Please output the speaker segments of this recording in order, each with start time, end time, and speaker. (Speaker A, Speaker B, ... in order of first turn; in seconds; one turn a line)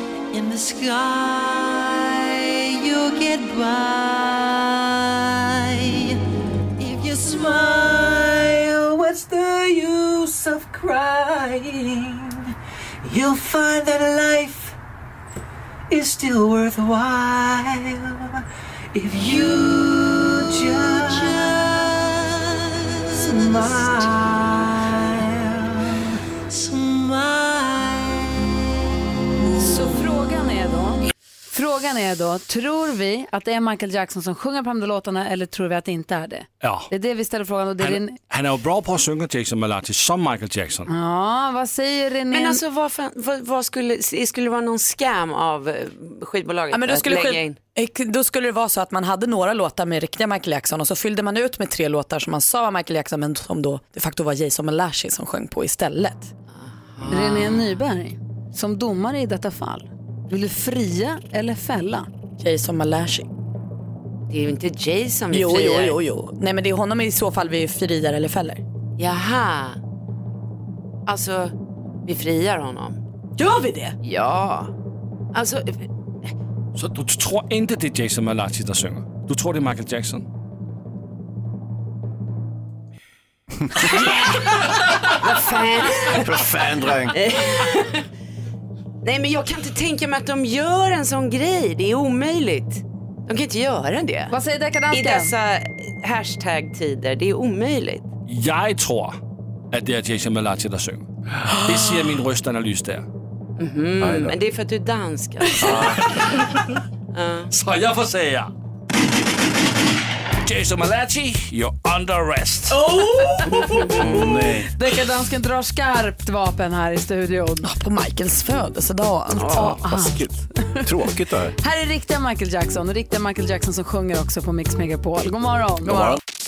Speaker A: 0.3-6.2
Speaker A: 6.8-12.5
Speaker A: 13.0-14.8
Speaker A: 15.9-18.4
Speaker A: 18.9-22.3
Speaker A: 23.1-28.3
Speaker B: 29.6-38.2
Speaker C: 36.6-36.9
Speaker C: 37.8-40.9
Speaker B: 40.9-42.6
Speaker D: 42.3-47.6
Speaker E: 46.7-56.3
Speaker D: 56.5-57.8
Speaker B: 57.1-62.1
Speaker E: 62.4-63.3
Speaker D: 64.3-66.0
Speaker E: 65.3-68.6
Speaker D: 69.0-69.8
Speaker D: 71.0-73.0
Speaker E: 73.4-74.0
Speaker D: 74.0-74.7
Speaker D: 75.3-76.3
Speaker C: 76.7-80.3
Speaker D: 83.9-84.4
Speaker D: 85.2-86.5
Speaker F: 86.0-87.2
Speaker D: 87.1-88.0
Speaker D: 89.0-94.3
Speaker B: 94.3-95.3
Speaker D: 94.9-98.1
Speaker C: 98.3-99.2
Speaker C: 99.7-103.1
Speaker D: 103.6-105.7
Speaker F: 104.0-104.4
Speaker F: 105.6-106.0
Speaker D: 107.1-107.5
Speaker C: 107.5-108.5
Speaker C: 110.4-112.8
Speaker B: 113.5-114.1
Speaker F: 114.0-114.7
Speaker B: 114.7-117.7
Speaker E: 117.6-119.8
Speaker B: 119.3-120.9
Speaker F: 119.4-121.5
Speaker B: 121.6-126.0
Speaker F: 125.9-126.2
Speaker E: 125.9-126.2